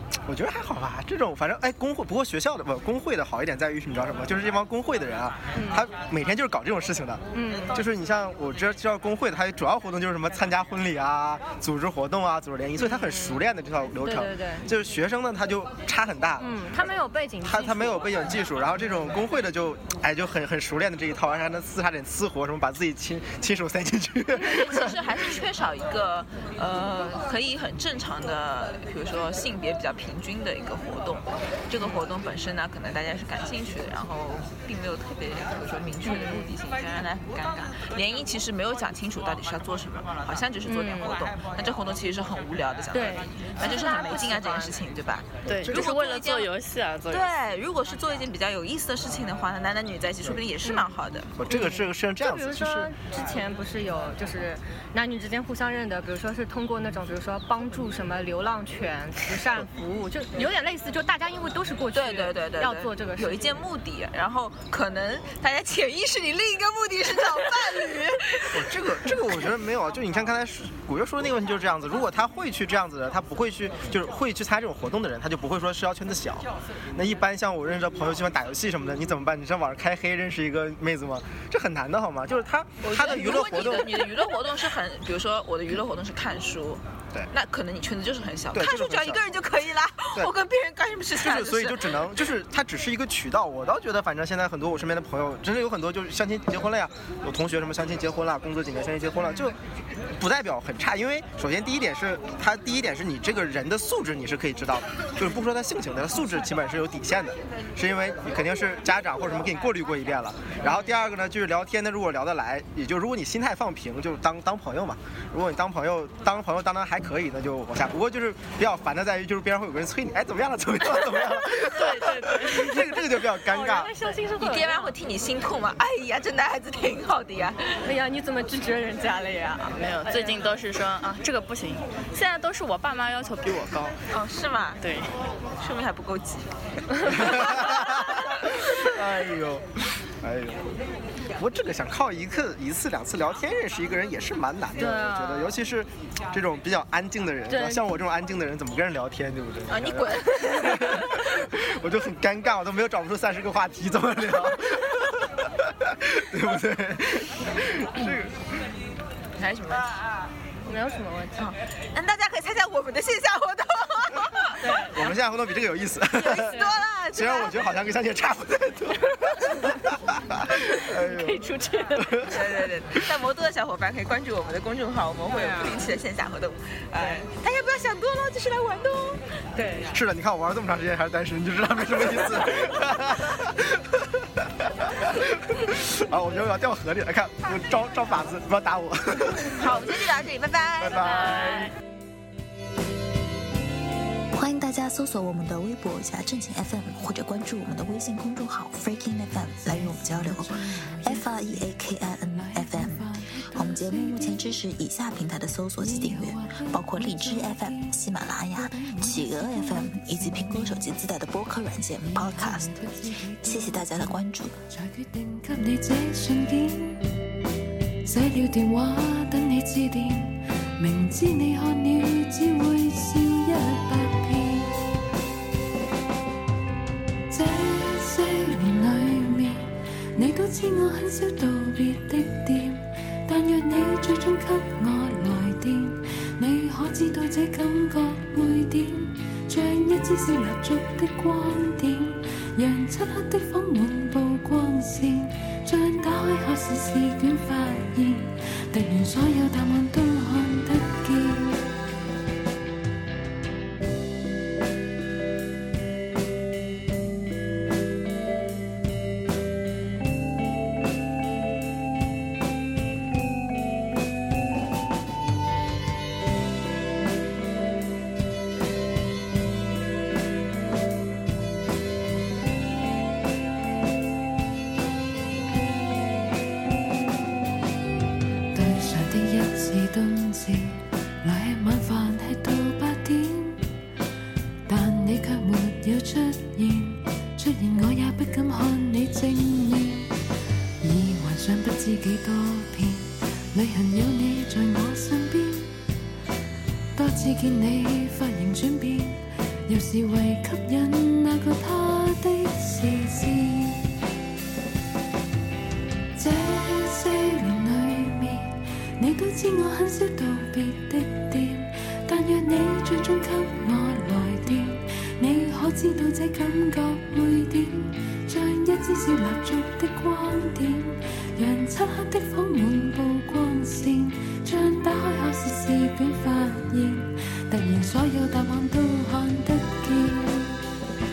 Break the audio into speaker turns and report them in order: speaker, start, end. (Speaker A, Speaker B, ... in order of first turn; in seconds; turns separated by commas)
Speaker A: 0.2-16.9, Speaker B: 5.5-5.9, Speaker B: 7.3-7.8, Speaker B: 12.8-13.4, Speaker B: 13.9-14.7, Speaker B: 16.4-18.2, Speaker A: 17.4-24.9, Speaker C: 24.3-46.5, Speaker B: 36.0-36.5, Speaker B: 40.7-41.2, Speaker B: 42.9-44.8, Speaker D: 45.5-47.3, Speaker A: 45.5-45.9, Speaker C: 47.1-51.4, Speaker A: 51.4-52.9, Speaker B: 51.5-63.6, Speaker C: 61.9-69.3, Speaker A: 68.5-84.1, Speaker C: 82.8-92.1, Speaker A: 88.5-89.2, Speaker A: 91.2-99.6, Speaker A: 100.2-123.9, Speaker B: 110.6-111.0, Speaker B: 121.0-125.0, Speaker C: 124.4-127.8, Speaker B: 127.8-130.5, Speaker D: 129.8-134.0, Speaker C: 134.1-134.8, Speaker D: 134.8-135.1, Speaker C: 135.6-137.9, Speaker A: 137.0-140.7, Speaker A: 141.3-158.4, Speaker B: 144.8-145.6, Speaker B: 147.5-148.0, Speaker C: 149.7-151.3, Speaker C: 159.3-160.0, Speaker B: 160.7-161.4, Speaker C: 161.4-165.0, Speaker B: 164.6-165.1, Speaker A: 164.9-166.5, Speaker C: 166.1-167.6, Speaker B: 166.3-166.8, Speaker A: 167.1-171.4, Speaker B: 169.0-169.7, Speaker B: 170.6-172.4, Speaker A: 172.0-172.3, Speaker C: 172.2-179.2, Speaker B: 175.3-175.8, Speaker B: 179.5-180.0, Speaker A: 179.9-189.9, Speaker C: 189.5-191.6, Speaker A: 190.8-191.7, Speaker D: 191.0-191.7, Speaker E: 194.3-214.6, Speaker F: 199.6-204.6, Speaker F: 205.8-210.9, Speaker F: 212.1-217.2, Speaker F: 218.0-224.8, Speaker F: 227.3-251.7, Speaker F: 278.5-283.6, Speaker F: 284.7-290.2, Speaker F: 290.8-295.7, Speaker F: 296.9-303.9, Speaker F: 306.1-330.6